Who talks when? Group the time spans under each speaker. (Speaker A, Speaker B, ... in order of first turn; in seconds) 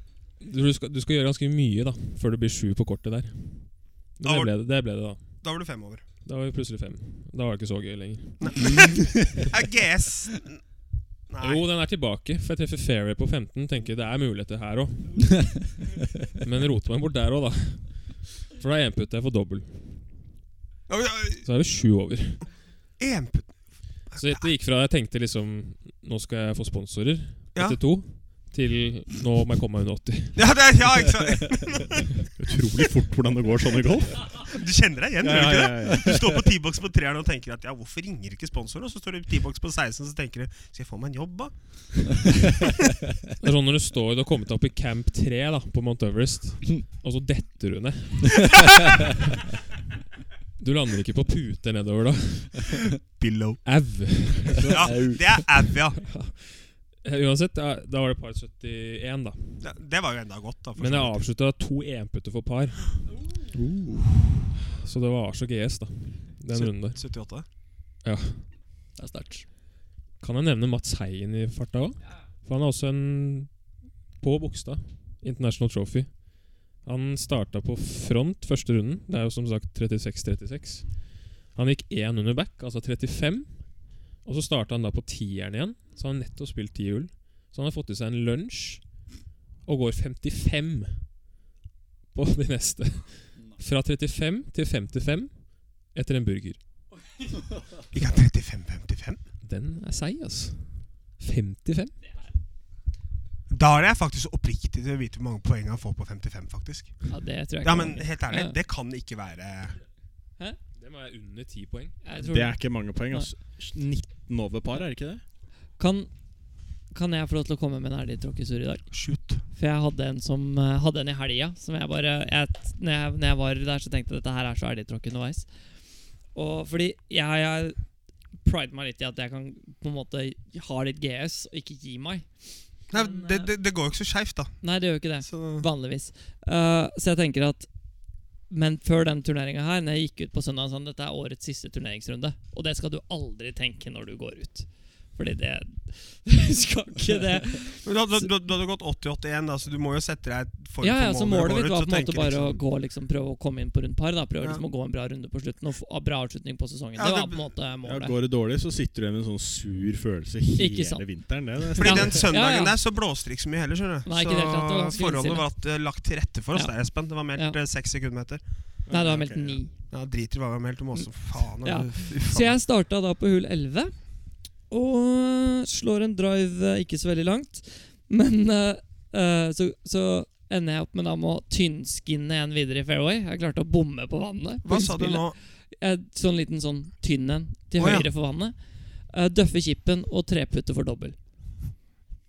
Speaker A: 0.4-5.4, 6.2-9.4, 11.4-15.7, 16.4-20.1, 21.4-22.5, 24.1-30.5, 43.4-49.1, 50.6-52.9, 53.6-59.6, 60.8-63.0, 64.8-67.1, 68.0-68.5, 70.2-89.1, 89.6-91.1, 92.1-96.6, 99.4-102.0, 110.7-112.0
Speaker B: 4.2-6.0, 8.4-10.6, 11.3-11.6, 20.9-21.4, 23.0-24.5, 27.5-28.3, 30.4-32.1, 34.3-42.6, 53.0-54.1, 54.7-56.0, 59.6-61.3, 66.5-67.5, 97.9-99.2, 103.5-109.8, 118.9-119.4, 132.9-134.7, 135.2-135.7, 147.8-152.6, 157.0-157.5, 161.8-168.4, 169.9-172.6, 184.6-185.3, 187.8-188.1
Speaker C: 8.6-9.4, 54.8-55.3, 63.5-64.3, 69.0-69.5
Speaker D: 32.4-34.5, 35.2-36.2, 112.2-115.2, 157.8-162.2, 168.8-169.6
Speaker E: 107.1-108.6, 112.0-113.3, 115.8-116.1, 116.9-125.5, 126.3-127.8, 128.4-133.5, 134.6-137.7, 138.5-148.2, 150.8-158.2, 160.6-162.8, 164.1-165.5, 168.9-169.7, 171.6-173.9, 174.7-191.2